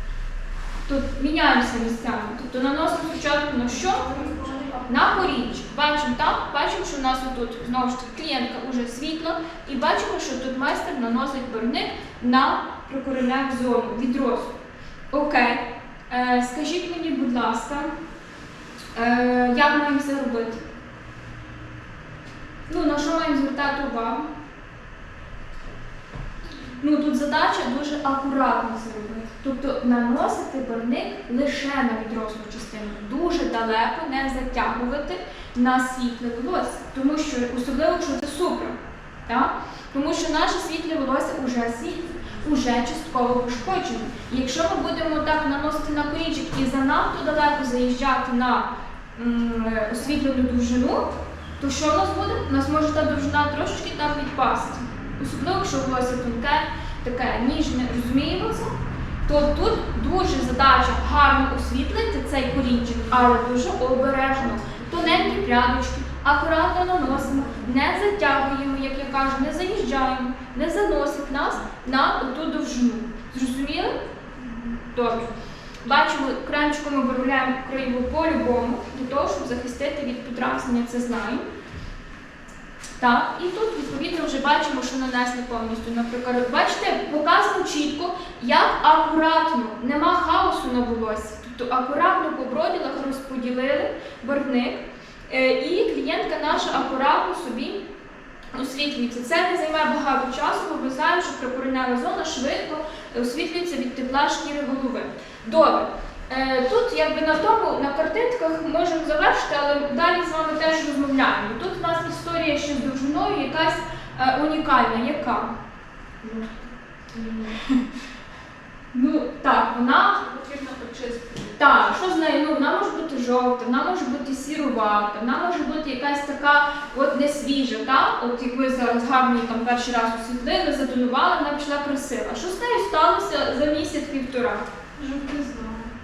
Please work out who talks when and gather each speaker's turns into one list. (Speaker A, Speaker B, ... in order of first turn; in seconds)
Speaker A: 0.8-4.0, 4.8-14.5, 15.1-17.9, 18.9-20.6, 22.7-24.3, 26.8-38.8, 39.3-58.7, 59.2-73.9, 74.9-75.3, 75.8-81.4, 83.0-97.8, 98.5-115.5, 118.9-120.2, 121.6-134.7
Speaker B: 3.7-5.2, 135.0-135.9
Speaker C: 4.1-4.7, 120.2-121.8